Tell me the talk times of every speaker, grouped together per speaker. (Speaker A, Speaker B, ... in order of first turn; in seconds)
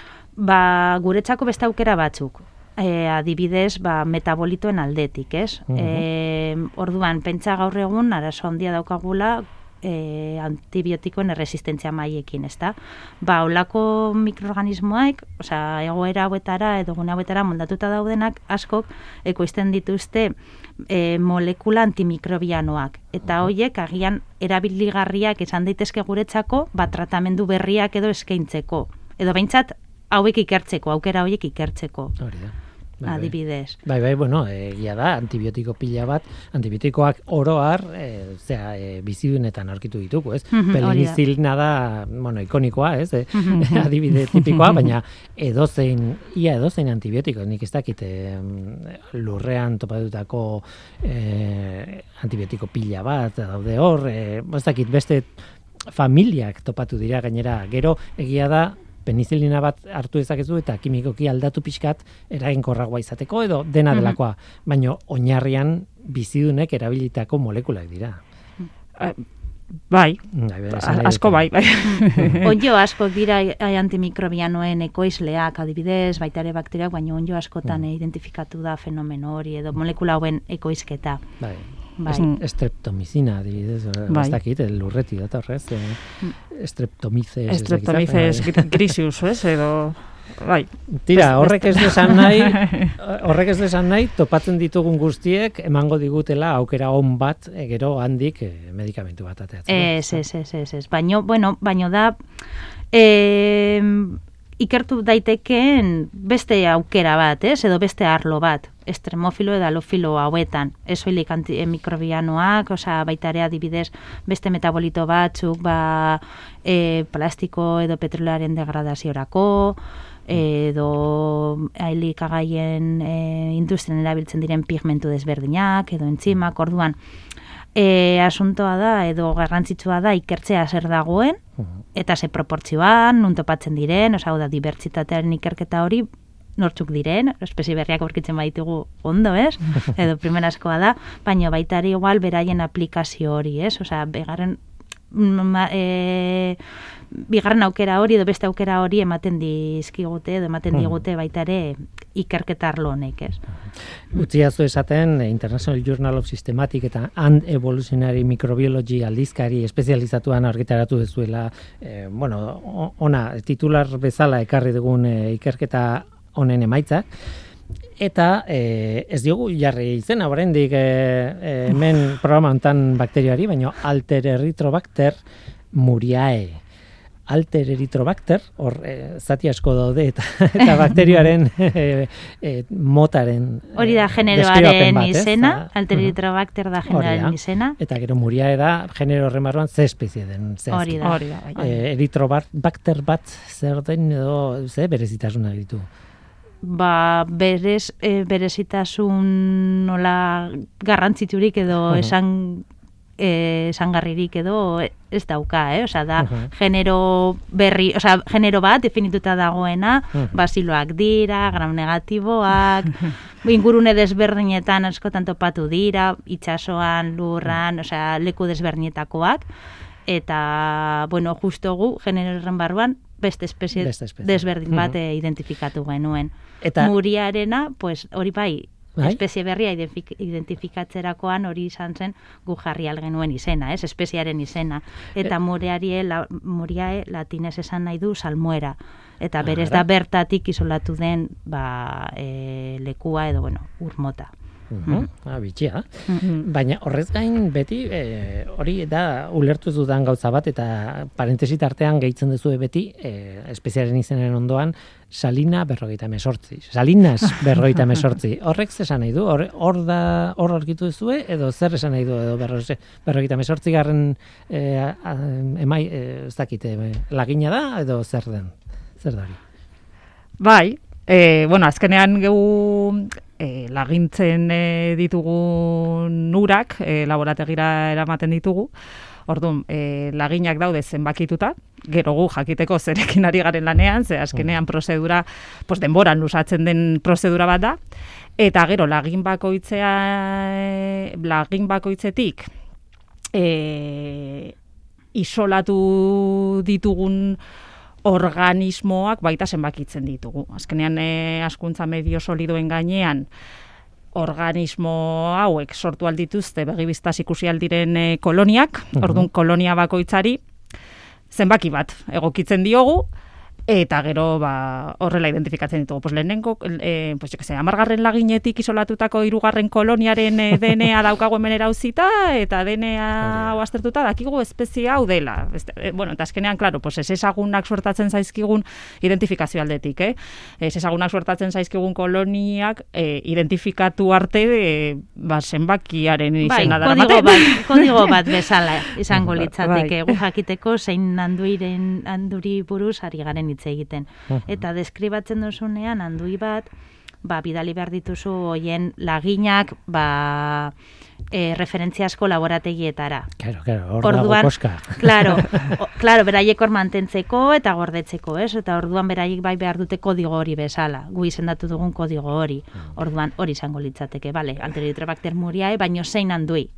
Speaker A: 0.4-32.1, 33.0-33.8, 40.5-41.2, 71.8-81.2, 82.0-82.3, 99.7-102.2, 102.9-127.0, 127.8-131.4, 131.9-136.1, 136.6-144.6, 145.1-146.6, 147.1-153.4, 183.8-187.8, 190.7-191.1, 196.6-202.7, 203.2-219.4, 220.1-244.3, 336.4-346.7, 347.2-350.7, 351.3-353.3, 354.0-366.7
Speaker B: 5.7-6.0, 32.2-33.3, 33.8-55.4, 55.9-68.2, 70.3-71.5, 81.4-88.8, 91.0-100.2, 150.7-151.0, 154.1-167.1, 168.0-175.2, 175.7-176.6, 177.3-186.1, 186.9-195.9, 206.2-206.5, 223.8-224.9, 226.6-226.9, 239.4-239.8, 244.7-269.4, 308.9-309.3, 323.2-323.5, 339.1-339.4, 344.3-344.6, 353.4-355.7
Speaker C: 43.5-44.9, 69.9-72.4, 82.1-82.4, 84.1-84.4, 87.5-92.9, 191.0-191.8, 246.2-246.4, 270.4-278.7, 279.3-287.8, 288.4-292.5, 293.3-294.5, 295.1-297.4, 298.0-303.2, 304.1-310.4, 311.3-313.1, 313.7-338.4, 339.5-340.2